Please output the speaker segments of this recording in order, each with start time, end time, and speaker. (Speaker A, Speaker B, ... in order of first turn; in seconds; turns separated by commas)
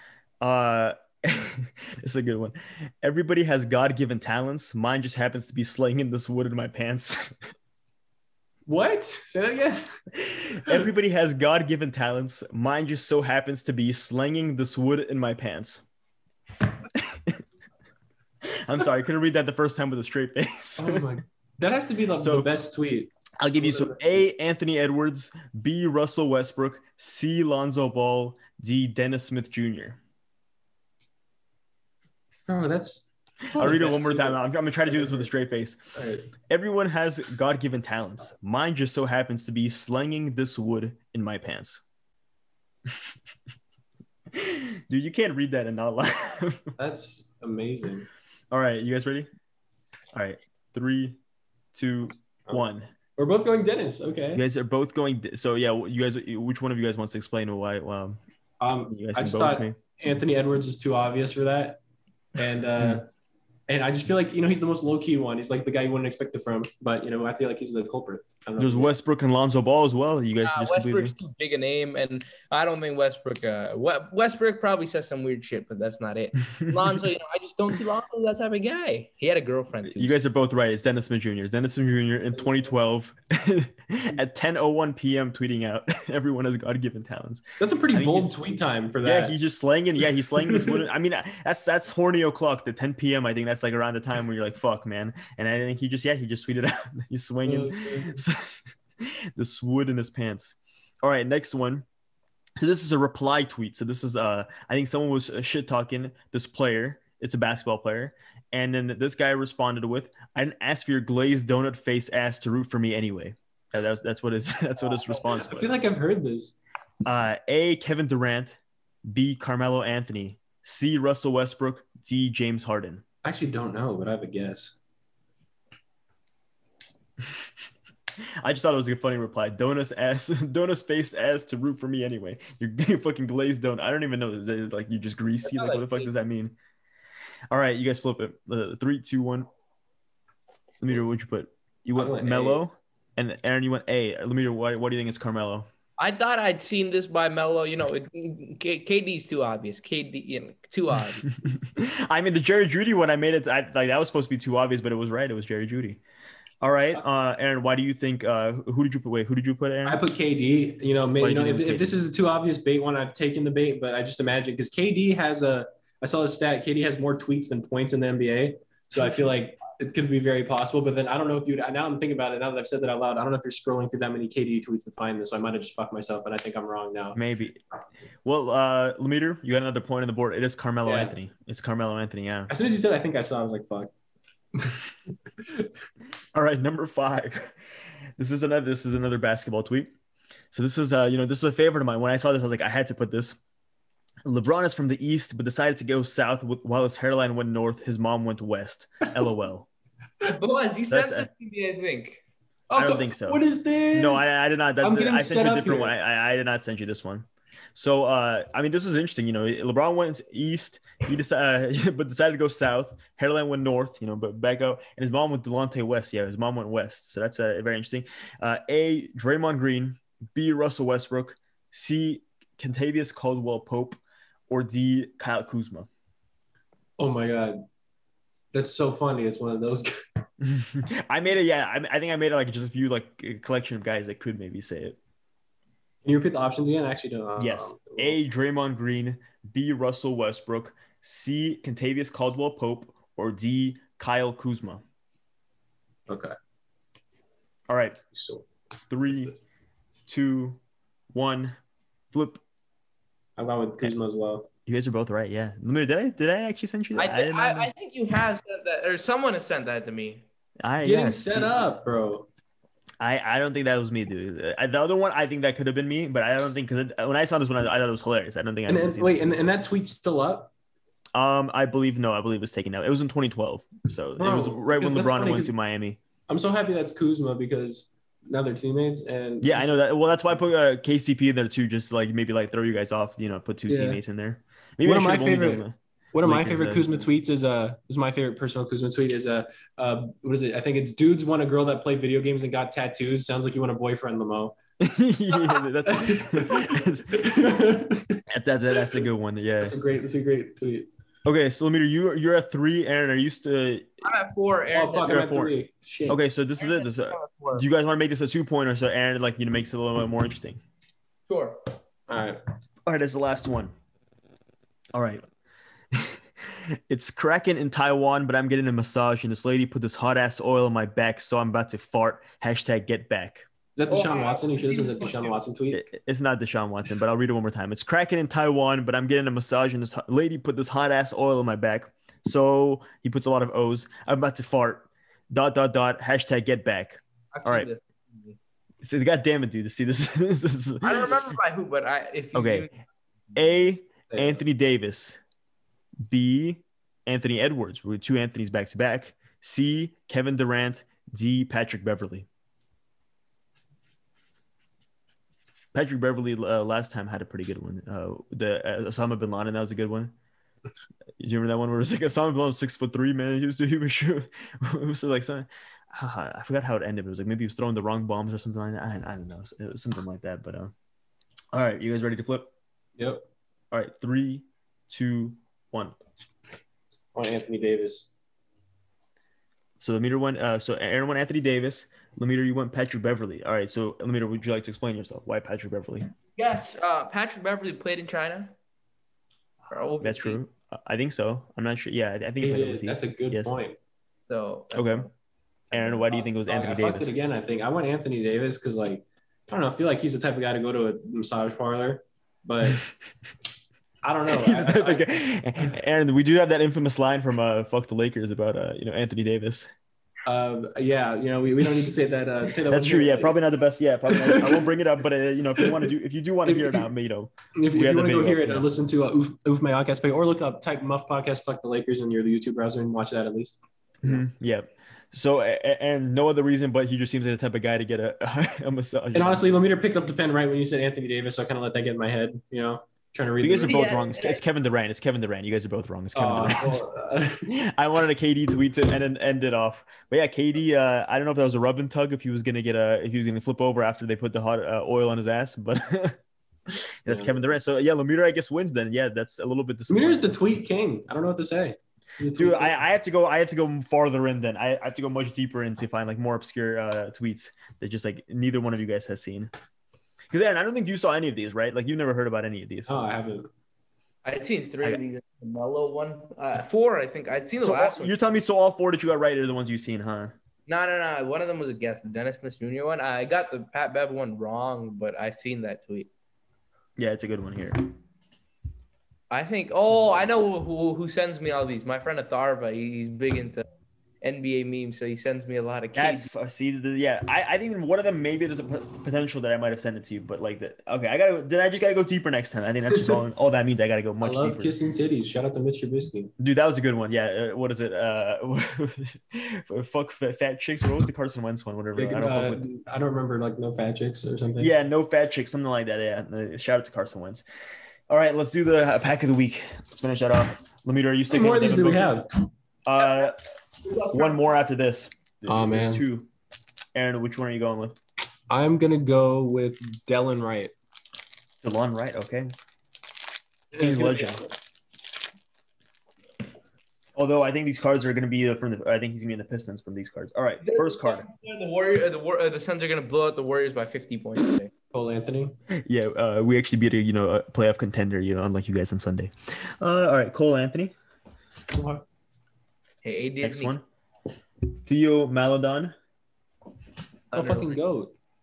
Speaker A: 0.4-7.3, Speaker B: 8.7-9.9, Speaker A: 10.2-15.8, Speaker A: 16.9-17.4, Speaker A: 18.4-21.1, Speaker B: 20.8-24.2, Speaker A: 22.2-22.5, Speaker A: 23.4-30.0, Speaker B: 32.5-35.3, Speaker A: 33.5-35.9, Speaker B: 35.9-36.2, Speaker A: 36.5-41.8, Speaker A: 44.3-46.7, Speaker B: 46.8-48.1, Speaker A: 48.5-49.3, Speaker A: 50.1-51.2, Speaker A: 51.7-52.9, Speaker B: 53.1-54.4, Speaker A: 54.3-58.2, Speaker B: 58.6-61.8, Speaker A: 58.9-59.8, Speaker B: 62.4-63.1, Speaker B: 63.7-69.0, Speaker A: 68.6-71.2, Speaker C: 70.4-80.2, Speaker A: 79.9-88.4, Speaker B: 87.6-89.4, Speaker A: 89.0-101.8, Speaker B: 90.5-90.8, Speaker B: 97.4-98.2, Speaker A: 102.6-115.8, Speaker B: 115.1-116.6, Speaker A: 117.0-123.0, Speaker B: 123.2-124.8, Speaker A: 128.4-136.6, Speaker C: 135.5-136.1, Speaker A: 137.5-139.5, Speaker A: 140.8-145.7, Speaker B: 141.9-142.6, Speaker C: 146.0-151.2, Speaker A: 151.3-156.0, Speaker A: 156.6-160.0, Speaker B: 159.8-177.2, Speaker A: 161.2-161.9, Speaker A: 177.1-177.6, Speaker A: 178.2-182.5, Speaker B: 180.8-181.1, Speaker B: 182.5-183.9, Speaker B: 185.4-185.7, Speaker A: 186.3-187.5, Speaker A: 188.2-189.9, Speaker A: 190.5-193.4, Speaker A: 194.2-199.7, Speaker C: 200.2-202.2, Speaker A: 200.9-201.3, Speaker B: 202.7-205.9, Speaker A: 202.7-225.9, Speaker B: 227.0-227.6, Speaker B: 228.5-229.9, Speaker A: 230.4-235.0, Speaker B: 236.0-238.2, Speaker A: 237.4-244.8, Speaker B: 246.1-246.3, Speaker A: 247.7-248.0, Speaker B: 248.1-248.5, Speaker A: 248.9-249.3, Speaker B: 249.1-249.4, Speaker A: 250.1-250.6, Speaker A: 251.1-251.6, Speaker A: 252.1-252.4, Speaker B: 253.4-254.5, Speaker A: 254.7-257.7, Speaker C: 256.9-260.2, Speaker A: 260.6-261.6, Speaker B: 260.8-262.3, Speaker A: 263.0-269.3, Speaker B: 268.7-270.5, Speaker A: 271.1-276.0, Speaker B: 274.2-275.5, Speaker B: 276.3-279.7, Speaker A: 279.4-287.0, Speaker B: 283.7-284.0, Speaker B: 284.8-294.6, Speaker A: 294.8-297.5, Speaker B: 295.9-298.2, Speaker A: 298.3-299.8, Speaker B: 299.6-300.9, Speaker A: 301.2-304.0, Speaker C: 304.0-305.2, Speaker B: 304.7-306.2, Speaker A: 305.0-305.5, Speaker A: 306.1-310.6, Speaker C: 306.6-307.6, Speaker C: 311.3-311.6, Speaker B: 312.1-312.4, Speaker A: 312.9-313.7, Speaker A: 314.9-315.2, Speaker A: 315.9-316.2, Speaker A: 316.9-323.4, Speaker B: 323.8-325.9, Speaker C: 323.9-325.3, Speaker A: 325.7-337.7, Speaker C: 337.3-338.4, Speaker A: 338.8-341.3, Speaker C: 340.8-342.7, Speaker A: 342.3-342.7, Speaker C: 343.3-343.6, Speaker A: 343.3-345.2, Speaker B: 344.1-344.4, Speaker A: 346.1-352.3, Speaker A: 355.7-360.1, Speaker A: 361.2-370.7, Speaker A: 371.5-372.5, Speaker B: 373.0-373.2, Speaker A: 373.7-375.9, Speaker B: 377.1-378.1, Speaker A: 379.8-386.1, Speaker C: 386.4-388.5, Speaker C: 389.7-390.4, Speaker A: 390.0-393.6, Speaker B: 392.4-393.8, Speaker C: 394.3-395.1, Speaker A: 394.7-395.1, Speaker A: 395.7-397.1, Speaker B: 396.1-402.8, Speaker A: 402.6-402.9, Speaker B: 404.0-405.1, Speaker A: 404.3-409.7, Speaker B: 410.2-413.4, Speaker A: 412.7-418.7, Speaker B: 414.1-414.7, Speaker B: 415.6-415.9, Speaker B: 416.4-416.9, Speaker B: 417.5-424.2, Speaker A: 424.0-429.5, Speaker B: 429.1-434.0, Speaker A: 433.4-450.4, Speaker C: 433.7-434.4, Speaker B: 436.1-437.4, Speaker B: 447.1-447.4, Speaker B: 449.9-452.8, Speaker A: 452.3-459.5, Speaker A: 460.3-463.1, Speaker B: 462.9-463.5, Speaker C: 464.2-468.2, Speaker A: 467.6-470.3, Speaker C: 470.7-476.1, Speaker A: 477.0-477.9, Speaker C: 479.3-483.6, Speaker C: 484.2-486.3, Speaker A: 485.9-494.7, Speaker B: 494.2-496.3, Speaker A: 496.4-502.6, Speaker B: 501.9-504.7, Speaker A: 504.6-507.4, Speaker A: 508.1-512.2, Speaker B: 511.3-512.3, Speaker A: 512.8-513.4, Speaker C: 513.0-514.5, Speaker A: 513.9-516.3, Speaker B: 515.5-516.0, Speaker A: 516.9-518.0, Speaker B: 518.5-520.7, Speaker A: 521.6-522.5, Speaker B: 523.7-524.5, Speaker A: 523.8-524.5, Speaker A: 527.1-531.2, Speaker C: 530.6-534.7, Speaker B: 534.9-535.5, Speaker A: 535.7-540.9, Speaker B: 541.7-542.0, Speaker C: 543.0-543.8, Speaker A: 543.4-543.8, Speaker A: 544.8-545.9, Speaker C: 547.3-547.7, Speaker B: 547.3-548.1